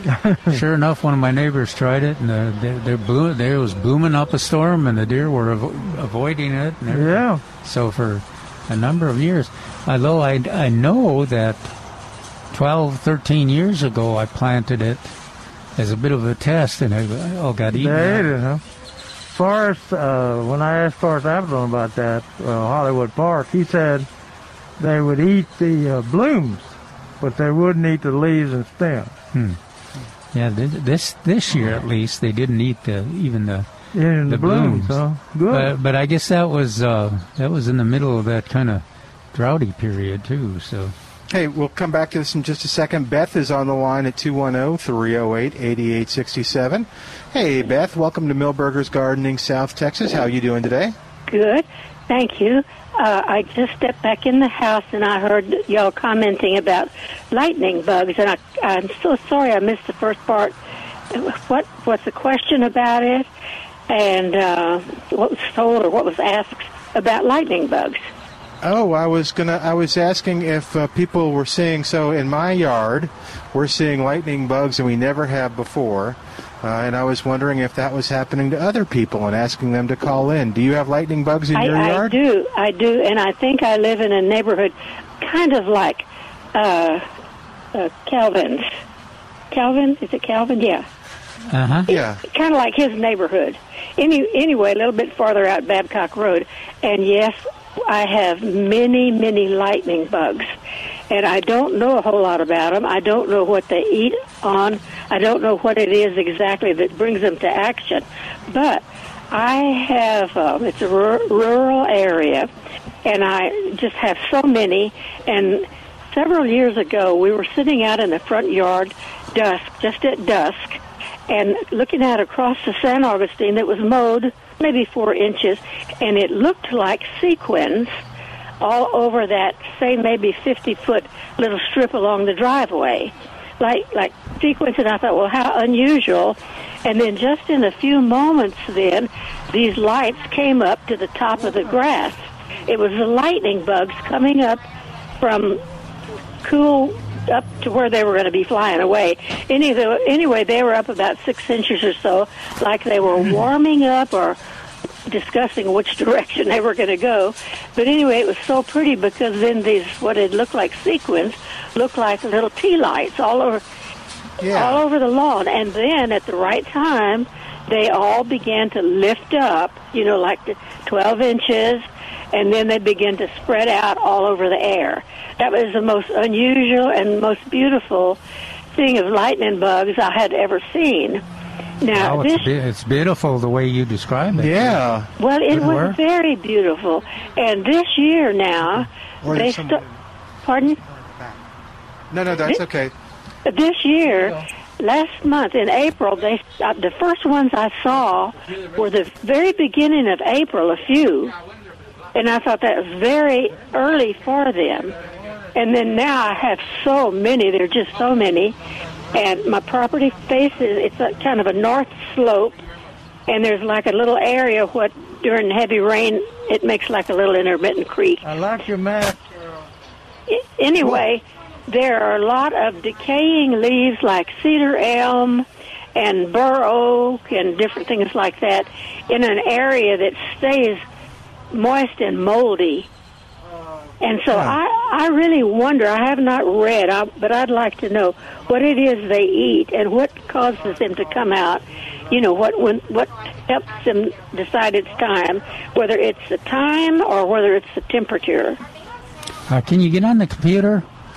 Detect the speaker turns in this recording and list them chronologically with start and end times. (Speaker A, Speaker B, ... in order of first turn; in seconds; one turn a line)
Speaker A: 0.1-0.6
Speaker B: 0.5-11.7
Speaker A: 6.9-7.4
Speaker B: 12.5-15.1
Speaker B: 15.8-18.3
Speaker A: 17.7-18.6
Speaker A: 19.3-24.1
Speaker A: 24.8-29.1
Speaker B: 29.3-29.6
Speaker B: 30.3-33.7
Speaker A: 33.9-35.7
Speaker B: 34.3-40.9
Speaker C: 41.3-50.9
Speaker D: 51.3-60.5
Speaker D: 61.1-63.3
Speaker D: 63.9-68.0
Speaker C: 68.6-82.2
Speaker D: 81.5-87.0
Speaker D: 87.7-88.7
Speaker D: 89.5-90.8
Speaker B: 91.5-91.9
Speaker C: 91.9-92.2
Speaker D: 91.9-100.5
Speaker D: 101.1-112.5
Speaker D: 113.0-128.0
Speaker D: 128.6-144.6
Speaker D: 145.2-145.6
Speaker D: 146.4-154.4
Speaker D: 155.1-163.6
Speaker C: 164.4-164.8
Speaker D: 164.5-178.2
Speaker D: 178.7-181.2
Speaker D: 181.8-182.5
Speaker B: 181.9-184.8
Speaker C: 184.3-185.1
Speaker D: 185.2-189.8
Speaker A: 185.5-185.9
Speaker C: 189.2-189.9
Speaker D: 190.4-190.8
Speaker C: 192.1-192.9
Speaker D: 193.4-201.3
Speaker D: 202.1-204.9
Speaker D: 205.5-208.6
Speaker D: 209.1-212.6
Speaker D: 213.3-218.2
Speaker A: 218.2-219.2
Speaker D: 220.3-230.8
Speaker D: 231.5-232.9
Speaker D: 234.0-248.6
Speaker C: 234.3-234.6
Speaker B: 249.5-250.8